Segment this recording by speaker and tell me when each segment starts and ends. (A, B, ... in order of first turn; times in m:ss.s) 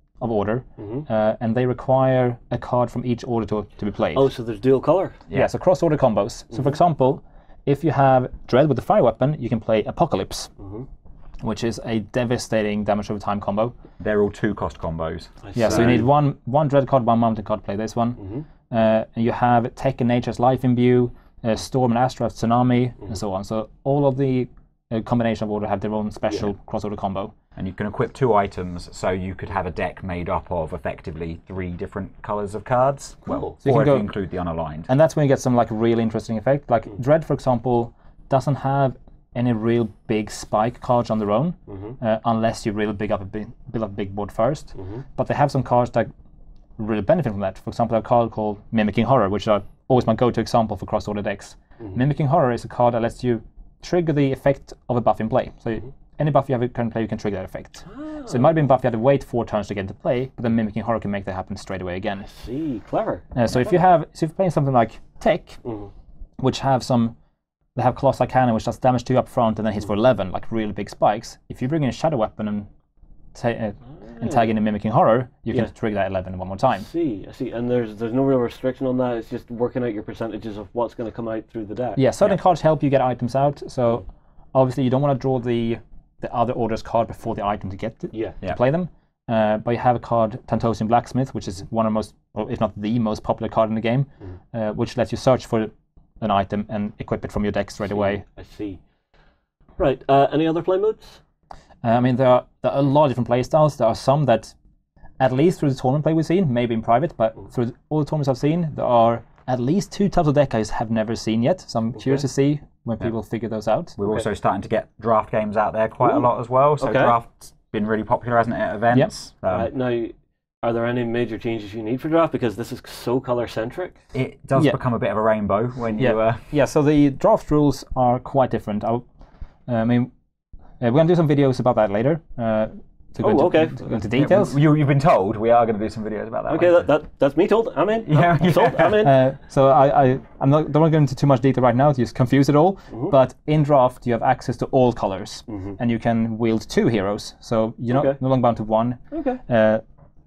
0:00.2-0:04.3 A
0:00.8-0:01.1 B
0:04.2-0:05.2 B
0:05.3-0:10.5 A
0:10.6-0:10.9 B
0:11.4-0:13.8 A
0:14.0-0:16.0 C
0:15.4-0:16.1 B
0:15.6-0:27.4 A
0:18.2-0:18.5 B
0:27.6-0:34.9 C
0:33.3-0:33.5 B
0:33.6-0:34.1 A
0:34.9-0:46.1 A
0:41.7-0:42.0 B
0:44.8-0:45.0 B
0:46.8-1:02.3 A
0:57.9-0:58.5 B
1:02.3-1:03.3 B
1:03.4-1:05.6 A
1:05.6-1:05.9 B
1:06.4-1:07.2 A
1:07.8-1:12.7 A
1:13.3-1:16.9 A
1:14.2-1:14.5 B
1:16.8-1:22.0 B
1:22.0-1:38.2 A
1:37.9-1:38.8 B
1:39.8-1:41.2 B
1:41.8-1:44.5 A
1:45.2-1:54.0 A
1:54.0-1:59.7 C
1:56.8-1:57.2 B
1:59.5-2:04.0 B
2:04.1-2:06.5 C
2:06.0-2:09.0 A
2:09.7-2:10.1 A
2:10.8-2:14.6 A
2:13.2-2:13.8 B
2:14.1-2:16.9 C
2:16.5-2:19.2 B
2:18.1-2:19.0 C
2:19.0-2:29.8 A
2:25.5-2:25.8 B
2:27.9-2:28.2 B
2:29.1-2:29.4 B